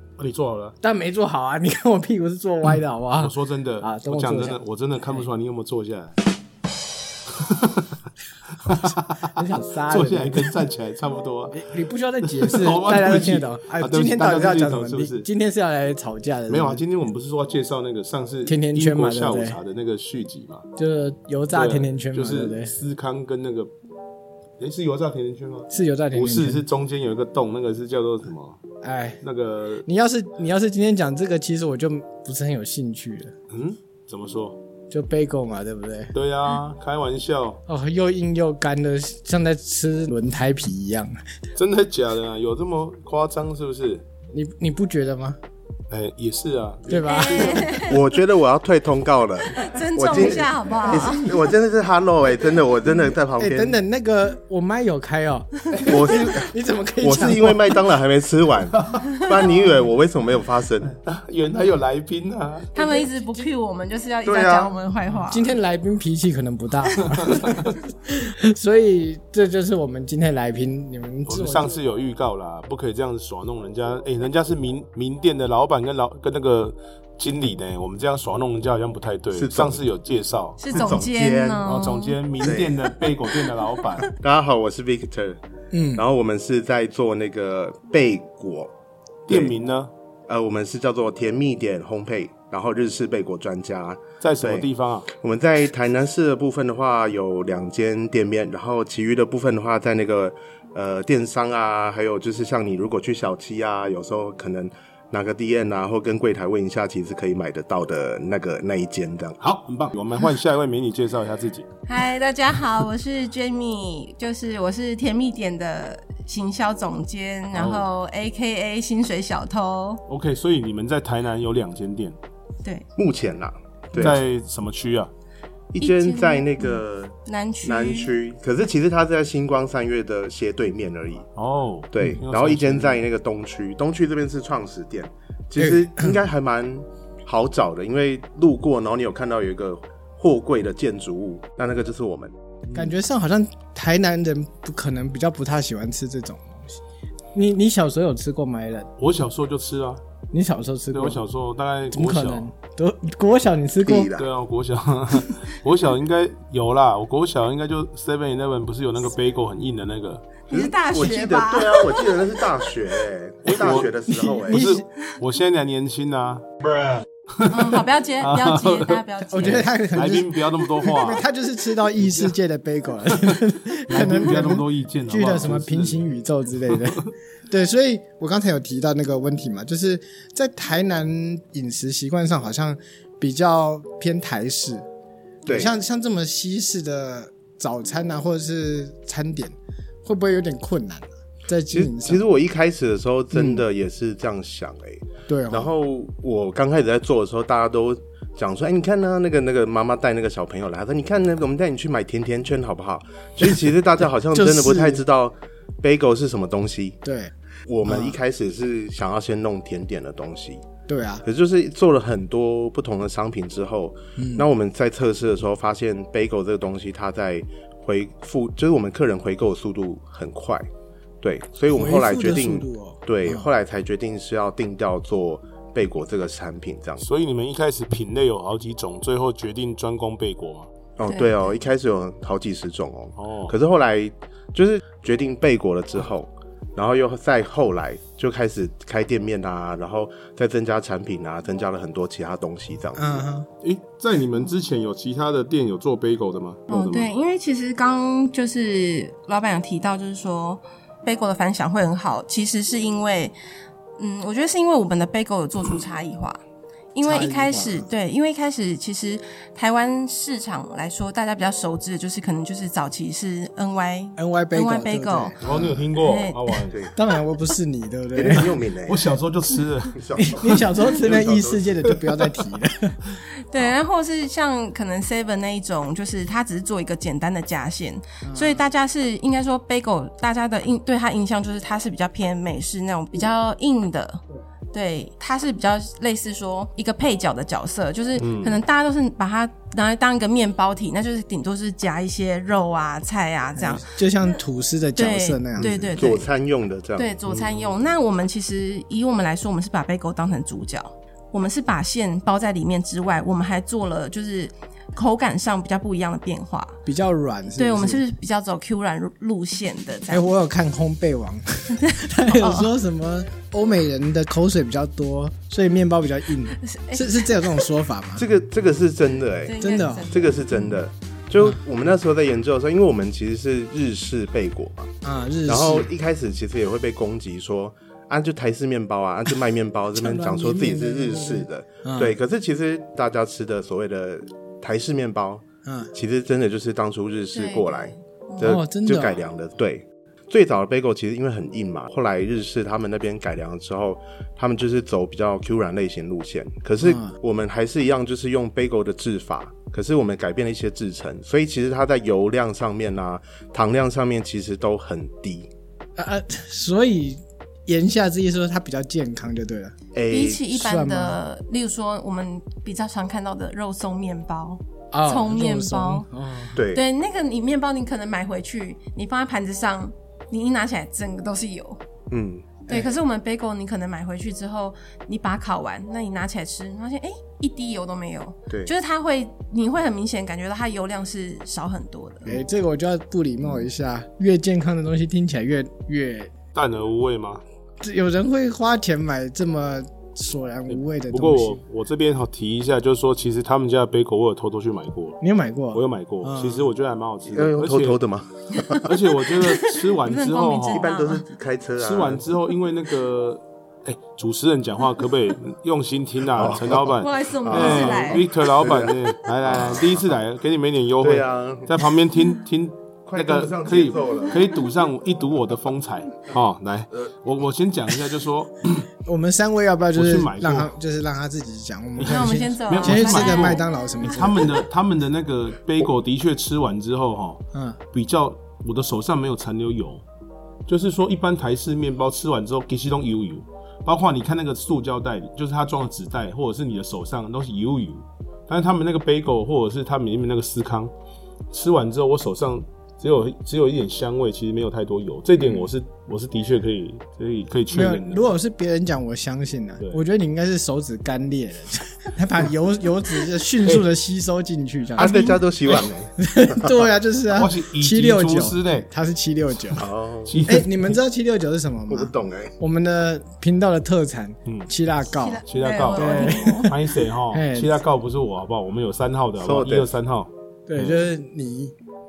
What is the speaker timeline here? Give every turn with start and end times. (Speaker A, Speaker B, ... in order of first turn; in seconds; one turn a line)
Speaker A: 0.2-0.8
Speaker B: 0.8-4.6
Speaker A: 3.2-6.2
Speaker A: 7.3-8.0
Speaker A: 8.6-11.7
Speaker B: 9.3-10.5
Speaker B: 11.5-16.8
Speaker A: 12.2-15.2
Speaker A: 16.5-20.6
Speaker B: 18.5-19.6
Speaker B: 20.8-22.7
Speaker A: 21.5-23.7
Speaker A: 24.6-28.6
Speaker B: 25.7-26.6
Speaker B: 28.8-29.2
Speaker A: 29.2-29.9
Speaker B: 29.9-33.3
Speaker A: 33.5-34.6
Speaker B: 34.9-36.1
Speaker A: 36.1-37.6
Speaker B: 37.7-41.2
Speaker A: 41.6-44.0
Speaker B: 44.3-45.4
Speaker A: 45.9-47.8
Speaker B: 46.9-47.8
Speaker C: 47.1-48.0
Speaker D: 47.8-53.8
Speaker C: 49.5-51.2
Speaker B: 50.1-51.5
Speaker B: 53.4-57.8
Speaker D: 55.8-60.9
Speaker A: 58.8-59.1
Speaker A: 60.9-62.7
Speaker C: 62.7-65.5
Speaker B: 62.8-63.5
Speaker D: 64.2-64.7
Speaker B: 65.2-71.8
Speaker A: 67.1-67.8
Speaker A: 71.3-81.0
Speaker D: 79.3-79.8
Speaker C: 80.6-82.2
Speaker D: 80.7-81.7
Speaker A: 81.7-84.1
Speaker D: 82.4-82.8
Speaker D: 84.1-85.4
Speaker B: 85.7-86.0
Speaker D: 86.0-88.7
Speaker A: 89.3-89.9
Speaker D: 90.3-109.4
Speaker A: 94.2-95.1
Speaker A: 109.4-111.7
Speaker C: 111.9-120.0
Speaker A: 117.5-117.9
Speaker A: 120.1-122.2
Speaker D: 123.0-124.2
Speaker A: 124.0-125.1
Speaker D: 125.7-131.3
Speaker C: 125.8-128.1
Speaker A: 131.4-133.0
Speaker D: 131.9-142.3
Speaker B: 135.6-136.2
Speaker B: 142.7-146.8
Speaker B: 147.3-148.9
Speaker A: 149.0-150.0
Speaker B: 150.3-151.2
Speaker A: 150.9-152.5
Speaker B: 151.9-154.1
Speaker D: 153.8-154.3
Speaker A: 154.2-160.3
Speaker C: 160.5-162.3
Speaker D: 160.5-164.7
Speaker A: 163.4-163.9
Speaker B: 164.1-164.9
Speaker A: 164.5-171.2
Speaker C: 167.5-169.6
Speaker B: 169.3-184.9
Speaker A: 172.0-172.3
Speaker A: 173.2-176.1
Speaker A: 176.7-177.1
Speaker D: 185.5-185.7
Speaker B: 185.5-192.2
Speaker D: 191.7-207.0
Speaker B: 193.3-193.7
Speaker B: 195.3-195.7
Speaker B: 204.3-205.0
Speaker B: 207.0-207.3
Speaker D: 207.7-210.7
Speaker B: 207.9-208.2
Speaker B: 210.9-211.2
Speaker D: 211.2-220.7
Speaker B: 214.2-214.5
Speaker D: 221.2-227.1
Speaker B: 221.7-223.5
Speaker A: 227.0-230.7
Speaker D: 231.0-243.2
Speaker C: 231.1-231.5
Speaker A: 233.2-233.6
Speaker B: 243.0-243.5
Speaker A: 243.6-247.1
Speaker C: 246.7-253.3
Speaker C: 254.0-256.4
Speaker C: 256.9-265.4
Speaker B: 257.0-257.9
Speaker B: 264.2-265.8
Speaker A: 265.4-266.8
Speaker C: 266.0-266.6
Speaker B: 267.0-268.6
Speaker D: 268.1-269.1
Speaker A: 268.9-270.6
Speaker D: 269.9-271.9
Speaker B: 270.2-273.0
Speaker C: 273.5-284.2
Speaker B: 278.2-278.6
Speaker C: 284.7-294.3
Speaker A: 288.2-288.6
Speaker B: 293.6-295.8
Speaker C: 295.0-296.3
Speaker D: 295.6-297.2
Speaker C: 297.0-306.8
Speaker A: 297.3-297.8
Speaker B: 306.9-308.0
Speaker C: 307.6-310.3
Speaker B: 310.1-318.2
Speaker C: 311.8-312.7
Speaker C: 316.5-317.4
Speaker D: 318.2-324.9
Speaker C: 319.4-320.4
Speaker B: 319.6-320.1
Speaker B: 325.0-325.9
Speaker D: 325.5-355.5
Speaker B: 329.9-332.2
Speaker B: 335.6-335.9
Speaker C: 337.3-338.6
Speaker B: 338.4-339.2
Speaker B: 346.8-347.1
Speaker B: 356.0-359.8
Speaker D: 359.9-360.4
Speaker C: 360.1-366.1
Speaker B: 360.5-361.2
Speaker B: 364.9-366.6
Speaker D: 366.6-366.8
Speaker C: 366.6-371.8
Speaker D: 372.1-372.6
Speaker C: 372.7-382.3
Speaker B: 382.2-386.4
Speaker A: 386.6-387.4
Speaker B: 387.8-391.6
Speaker A: 390.7-395.2
Speaker B: 395.2-396.7
Speaker A: 395.7-398.0
Speaker D: 397.3-398.9
Speaker A: 398.8-400.9
Speaker C: 399.4-401.2
Speaker D: 400.7-402.2
Speaker A: 401.8-418.9
Speaker D: 406.3-410.1
Speaker C: 406.9-408.3
Speaker D: 411.0-411.7
Speaker D: 413.1-414.5
Speaker B: 419.1-424.6
Speaker A: 419.9-420.7
Speaker A: 422.0-427.4
Speaker C: 422.0-423.6
Speaker B: 427.5-427.8
Speaker A: 427.9-430.0
Speaker A: 430.7-440.9
Speaker A: 441.5-448.3
Speaker B: 447.7-459.9
Speaker D: 455.0-456.9
Speaker A: 457.3-458.9
Speaker D: 459.8-460.5
Speaker A: 460.3-461.0
Speaker B: 460.4-467.8
Speaker D: 461.9-462.5
Speaker C: 465.1-466.7
Speaker A: 465.5-471.0
Speaker D: 469.4-469.9
Speaker B: 470.7-471.7